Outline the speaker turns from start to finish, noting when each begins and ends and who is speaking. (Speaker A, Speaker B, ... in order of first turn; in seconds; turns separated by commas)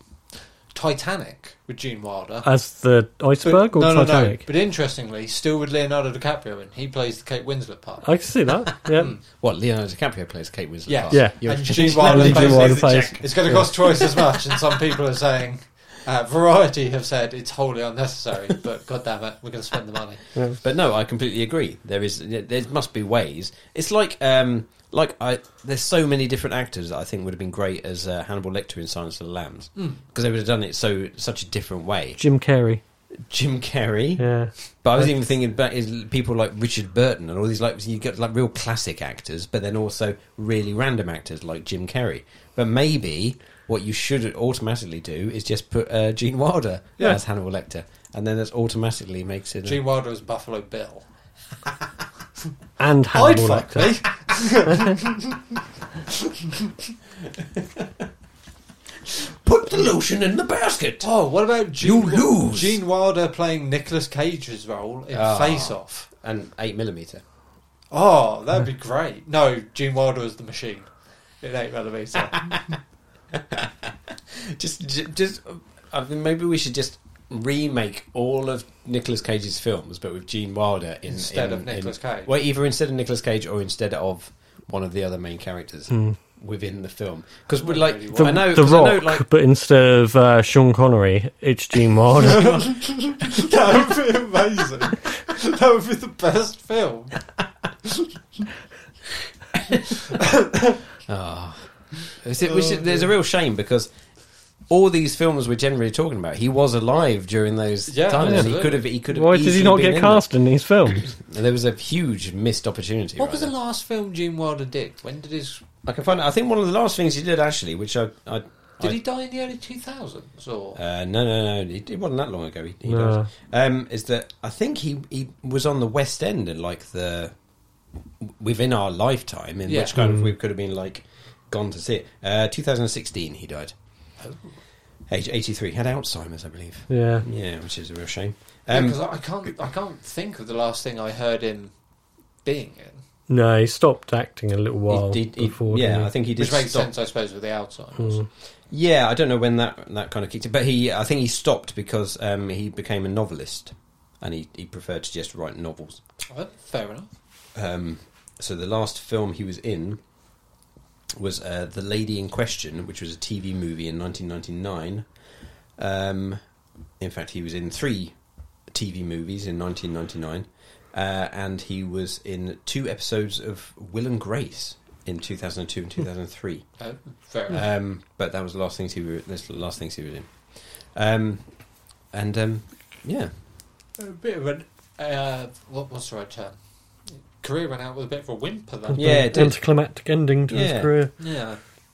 Speaker A: 0.7-2.5, Speaker B: 2.5-4.5, Speaker A: 3.4-8.2, Speaker B: 8.0-9.1, Speaker A: 8.9-9.2, Speaker C: 9.2-14.2, Speaker A: 10.9-20.2, Speaker B: 11.1-13.7, Speaker C: 20.6-32.2, Speaker A: 29.8-30.0, Speaker B: 32.2-32.8, Speaker C: 33.2-49.8, Speaker B: 34.2-34.6, Speaker A: 49.6-51.1, Speaker B: 52.8-54.1, Speaker A: 53.1-55.3, Speaker C: 57.4-58.0, Speaker C: 59.0-61.1, Speaker A: 61.0-66.1, Speaker C: 61.8-62.8, Speaker C: 65.1-67.2, Speaker A: 67.9-72.8, Speaker C: 73.3-89.3, Speaker A: 81.1-82.3, Speaker B: 85.9-86.2, Speaker A: 87.6-88.5, Speaker B: 88.2-92.8, Speaker A: 92.4-97.2, Speaker C: 101.1-103.9, Speaker A: 102.4-103.1, Speaker C: 104.6-110.3, Speaker A: 107.9-108.8, Speaker B: 108.2-111.1, Speaker C: 111.0-113.5, Speaker A: 113.2-115.6, Speaker C: 115.8-119.0, Speaker A: 118.8-120.8, Speaker C: 120.8-127.3, Speaker B: 122.9-123.3, Speaker C: 128.2-133.8, Speaker A: 129.7-130.0, Speaker B: 129.9-130.3, Speaker A: 134.2-134.6, Speaker C: 135.1-139.0, Speaker B: 136.9-137.3, Speaker A: 138.7-141.8, Speaker A: 142.4-143.0, Speaker B: 143.3-146.1, Speaker C: 144.9-146.9, Speaker A: 146.4-148.3, Speaker B: 148.0-148.3, Speaker C: 148.7-156.0, Speaker A: 156.3-157.1, Speaker C: 157.5-160.0, Speaker C: 161.1-165.1, Speaker C: 165.8-166.4, Speaker C: 167.0-168.2, Speaker C: 168.7-176.9, Speaker A: 176.8-177.6, Speaker C: 177.5-183.3, Speaker A: 184.0-189.4, Speaker B: 188.9-191.1, Speaker C: 189.0-189.8, Speaker C: 190.5-191.3, Speaker A: 191.2-191.6